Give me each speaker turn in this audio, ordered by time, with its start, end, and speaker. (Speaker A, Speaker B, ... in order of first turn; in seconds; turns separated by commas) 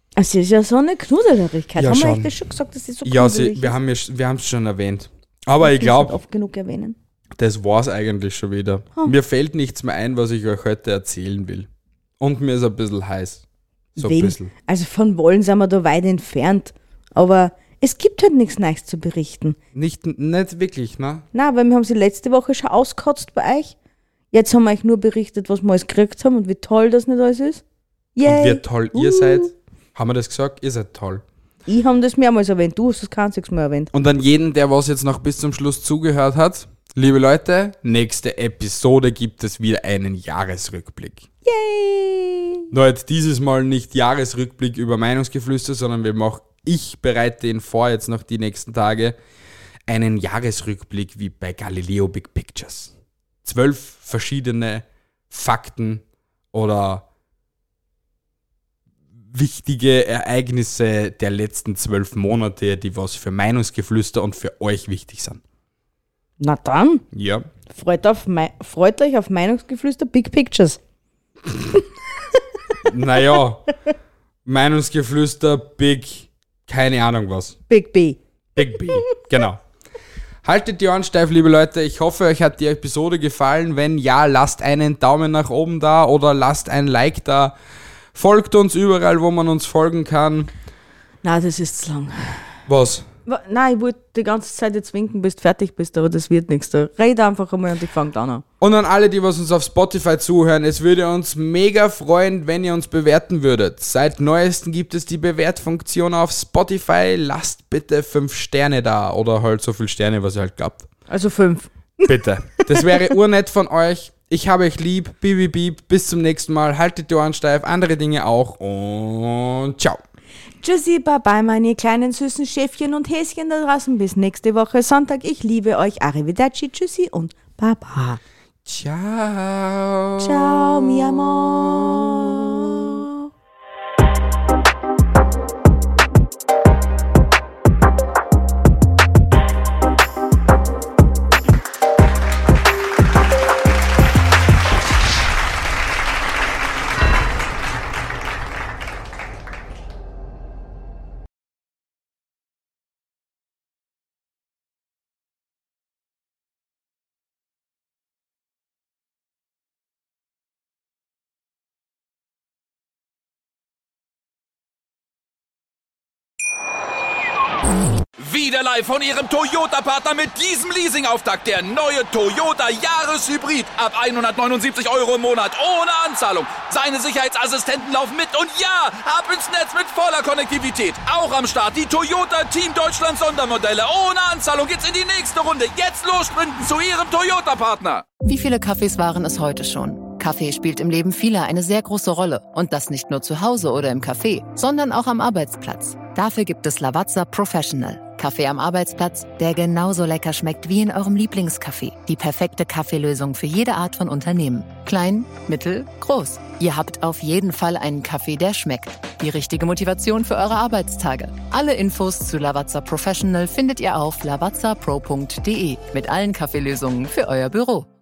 Speaker A: 0.1-3.7, Speaker B: 1.8-2.3, Speaker B: 3.0-6.2, Speaker A: 5.6-7.0, Speaker B: 7.4-11.7, Speaker B: 12.2-13.4, Speaker B: 13.9-14.5, Speaker A: 14.0-19.6, Speaker B: 19.7-21.2, Speaker A: 21.3-23.7, Speaker A: 24.3-27.6, Speaker A: 28.1-29.5, Speaker B: 28.2-31.2, Speaker A: 31.7-33.9, Speaker B: 33.9-41.2, Speaker A: 41.4-42.6, Speaker B: 42.7-49.1, Speaker B: 49.9-52.9, Speaker B: 53.4-57.0, Speaker B: 59.3-65.4, Speaker A: 66.4-67.0, Speaker B: 67.1-67.5, Speaker A: 67.7-70.8, Speaker B: 72.8-73.7, Speaker B: 74.4-77.6, Speaker A: 77.7-79.2, Speaker B: 78.6-79.6, Speaker B: 80.4-87.5, Speaker B: 88.1-90.5, Speaker A: 91.2-92.4, Speaker B: 92.7-93.0, Speaker A: 93.2-98.4, Speaker B: 98.6-110.9, Speaker A: 111.1-112.1, Speaker B: 112.0-120.0, Speaker A: 112.6-113.0, Speaker A: 120.6-128.2, Speaker B: 128.7-132.1, Speaker A: 130.2-133.2, Speaker C: 168.2-188.0, Speaker D: 188.2-217.9